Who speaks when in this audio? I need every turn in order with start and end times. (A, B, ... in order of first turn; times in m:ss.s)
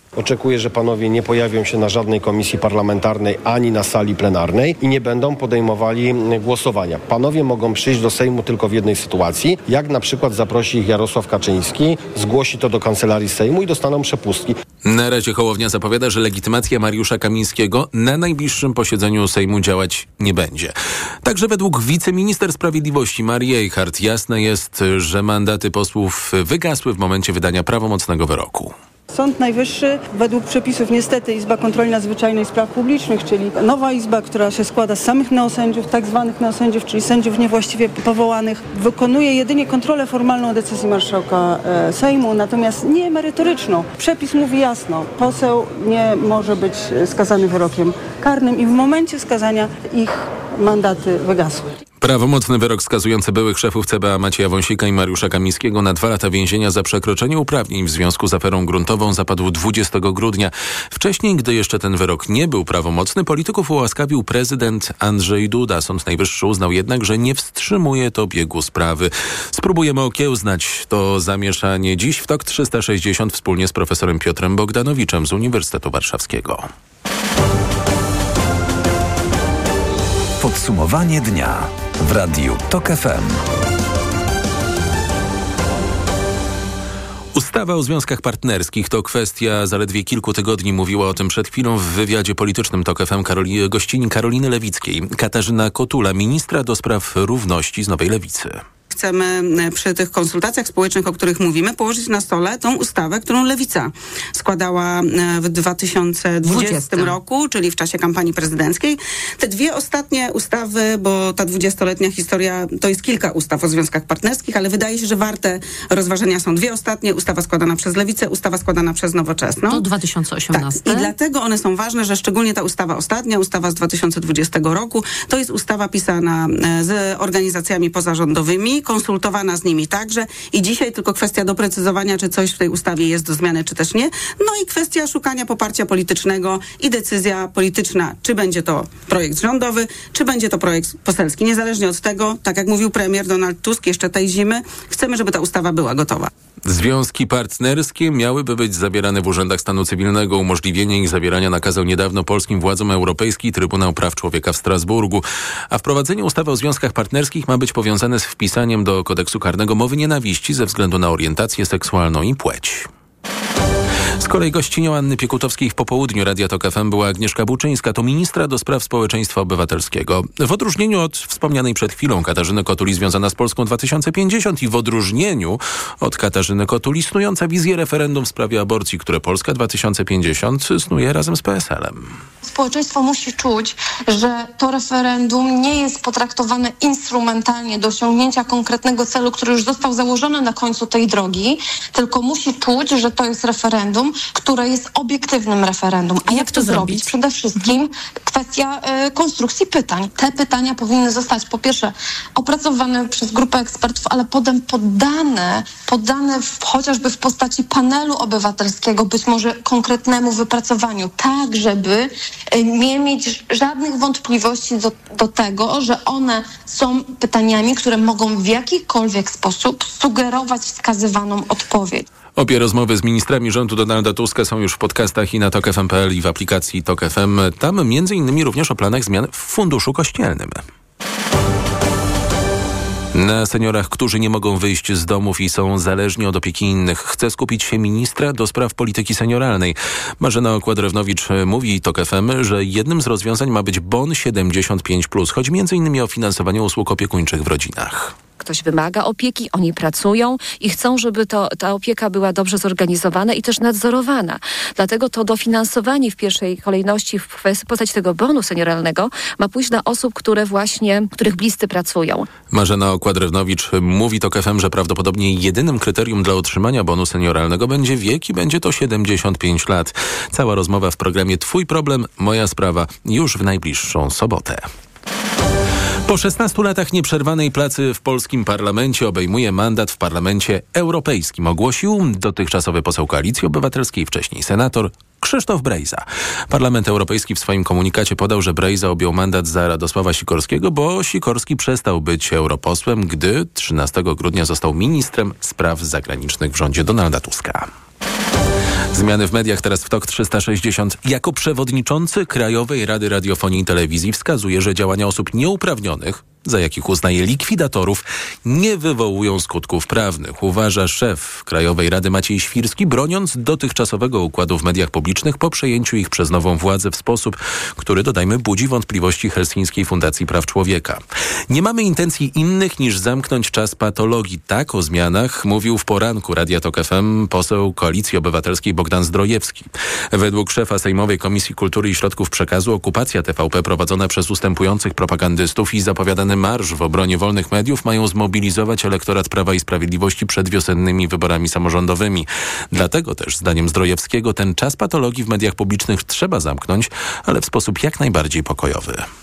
0:00.2-0:14.5 A
0:14.8-0:28.7 B
0:29.1-0:51.7 C
0:52.0-1:16.7 B
1:20.4-1:23.4 D
1:27.3-1:38.6 B
1:38.9-1:59.9 E
2:00.5-2:01.1 A
2:00.6-2:26.3 E
2:26.6-2:42.9 B
2:44.2-3:02.1 B
3:02.4-3:42.0 F
3:16.4-3:16.9 A
3:42.4-3:50.6 B
3:53.1-4:08.1 B
4:08.4-4:22.3 G
4:22.5-4:34.7 B
4:36.1-4:57.7 B
4:58.9-5:49.0 B